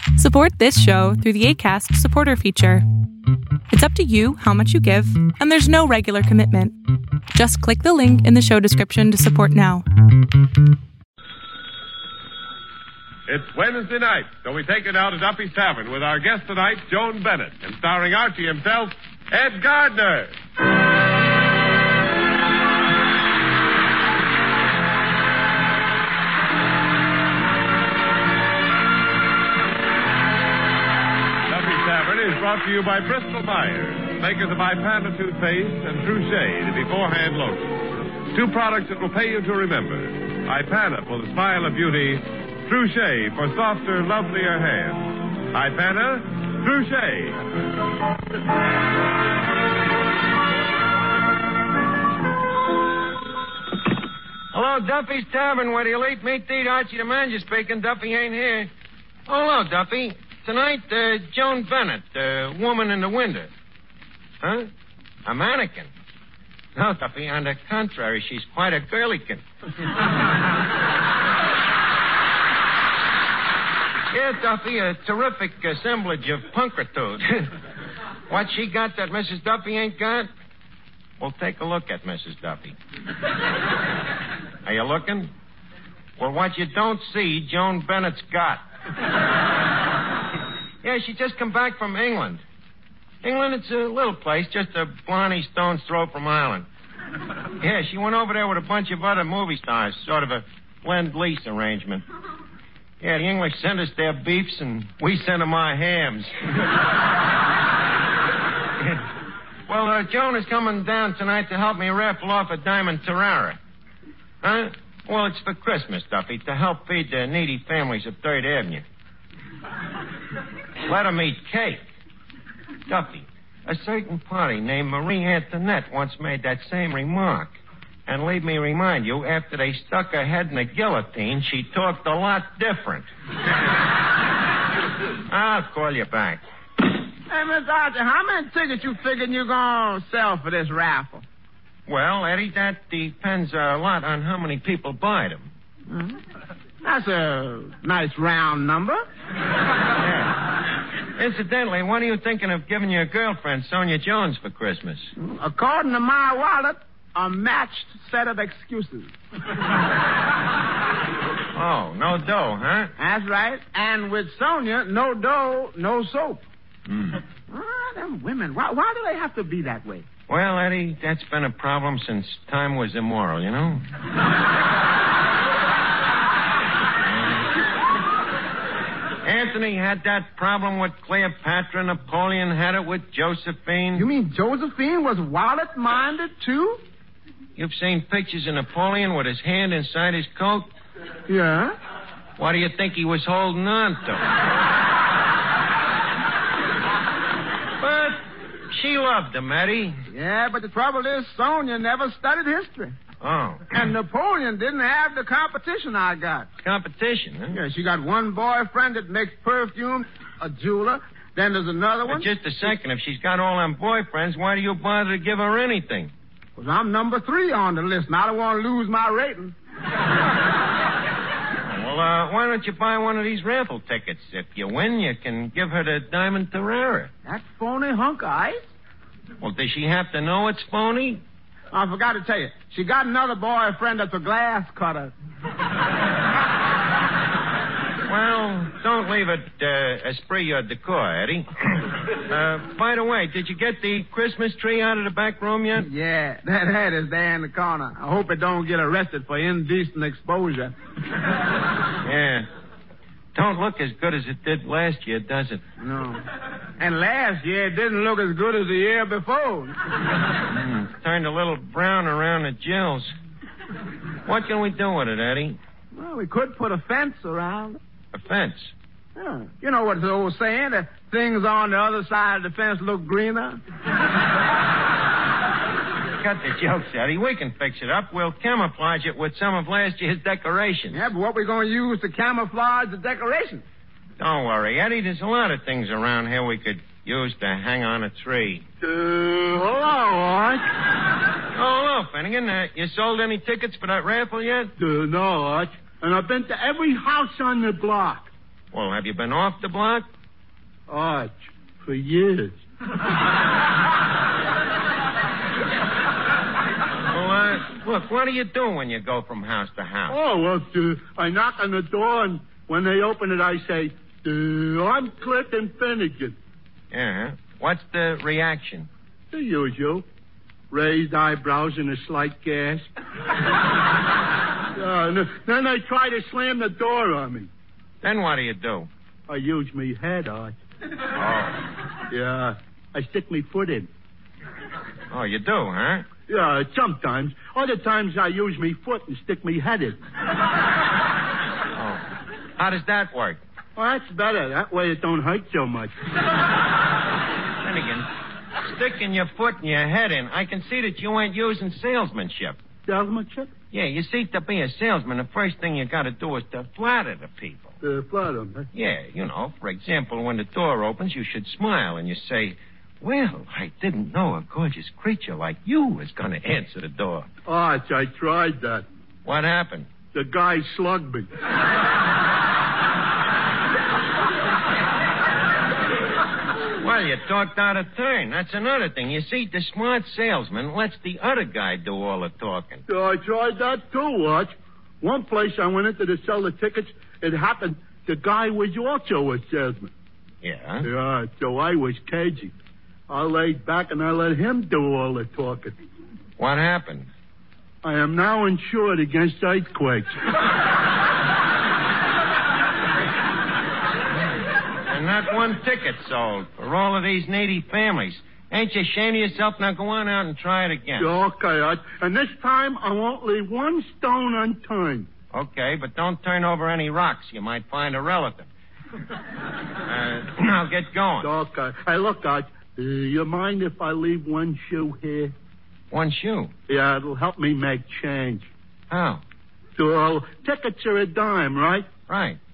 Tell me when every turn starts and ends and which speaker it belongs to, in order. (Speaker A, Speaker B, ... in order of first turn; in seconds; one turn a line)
Speaker A: 0.2-2.9
Speaker A: 3.7-6.7
Speaker A: 7.3-9.9
Speaker B: 13.3-20.3
Speaker B: 31.5-47.4
Speaker C: 54.5-58.7
Speaker C: 59.3-63.5
Speaker C: 64.4-64.7
Speaker C: 65.2-65.9
Speaker C: 66.7-69.4
Speaker C: 74.1-77.5
Speaker C: 78.3-80.3
Speaker C: 81.2-82.8
Speaker C: 84.6-85.3
Speaker C: 86.2-88.6
Speaker C: 90.8-92.4
Speaker C: 93.2-96.7
Speaker C: 97.6-102.0
Speaker C: 103.0-106.7
Speaker C: 109.7-113.6
Speaker C: 114.4-118.8
Speaker C: 120.8-121.8
Speaker C: 122.9-127.5
Speaker C: 128.1-133.1
Speaker C: 135.3-136.4
Speaker D: 137.3-141.2
Speaker C: 141.9-145.5
Speaker D: 145.9-146.2
Speaker D: 146.8-149.0
Speaker C: 150.0-150.4
Speaker C: 151.2-155.1
Speaker D: 155.2-159.1
Speaker C: 161.5-162.9
Speaker D: 163.0-166.4
Speaker C: 166.9-167.2
Speaker D: 167.5-170.1
Speaker C: 170.3-173.9
Speaker C: 179.2-184.1
Speaker D: 183.9-186.8
Speaker C: 187.6-190.7
Speaker D: 191.3-191.8
Speaker C: 192.4-194.3
Speaker C: 197.8-200.0
Speaker D: 200.1-203.0
Speaker C: 203.2-203.7
Speaker D: 203.7-206.5
Speaker C: 206.6-207.6
Speaker D: 207.5-212.3
Speaker C: 212.1-216.1
Speaker D: 216.6-219.6
Speaker C: 221.7-227.1
Speaker D: 227.3-228.6
Speaker C: 229.4-231.2
Speaker D: 231.7-235.1
Speaker C: 238.1-245.9
Speaker D: 245.8-250.7
Speaker C: 252.0-252.5
Speaker C: 253.3-255.6
Speaker D: 255.8-256.2
Speaker D: 256.8-259.8
Speaker C: 260.5-263.1
Speaker C: 264.2-265.6
Speaker D: 265.9-267.8
Speaker C: 268.1-268.7
Speaker D: 269.1-273.6
Speaker C: 276.2-281.1
Speaker D: 280.9-283.6
Speaker C: 284.2-288.6
Speaker E: 288.8-290.6
Speaker C: 291.5-294.7
Speaker E: 294.8-298.3
Speaker C: 298.7-300.1
Speaker E: 300.9-302.6
Speaker C: 307.1-310.2
Speaker E: 310.1-316.4
Speaker C: 316.9-318.9
Speaker E: 319.3-320.0
Speaker E: 320.7-322.9
Speaker E: 324.7-327.5
Speaker C: 328.0-328.9
Speaker E: 329.3-330.6
Speaker C: 331.1-331.7
Speaker E: 332.1-333.9
Speaker C: 335.1-336.1
Speaker E: 336.3-340.0
Speaker C: 341.7-342.0
Speaker C: 342.6-343.4
Speaker E: 343.8-345.9
Speaker C: 347.6-348.1
Speaker C: 348.6-352.6
Speaker E: 352.9-353.5
Speaker C: 353.7-357.8
Speaker E: 357.8-358.7
Speaker C: 358.7-367.3
Speaker E: 367.4-368.9
Speaker C: 369.2-369.9
Speaker E: 370.1-371.3
Speaker C: 376.8-382.8
Speaker E: 382.9-389.9
Speaker C: 390.4-390.9
Speaker E: 390.8-392.5
Speaker E: 393.1-395.8
Speaker C: 396.4-397.1
Speaker E: 397.8-400.1
Speaker C: 404.9-411.1
Speaker E: 411.0-415.1
Speaker C: 415.3-418.5
Speaker C: 419.8-421.3
Speaker E: 421.2-425.3
Speaker C: 425.9-426.5
Speaker E: 426.7-428.5
Speaker C: 428.9-429.2
Speaker E: 429.8-431.9
Speaker C: 432.1-432.4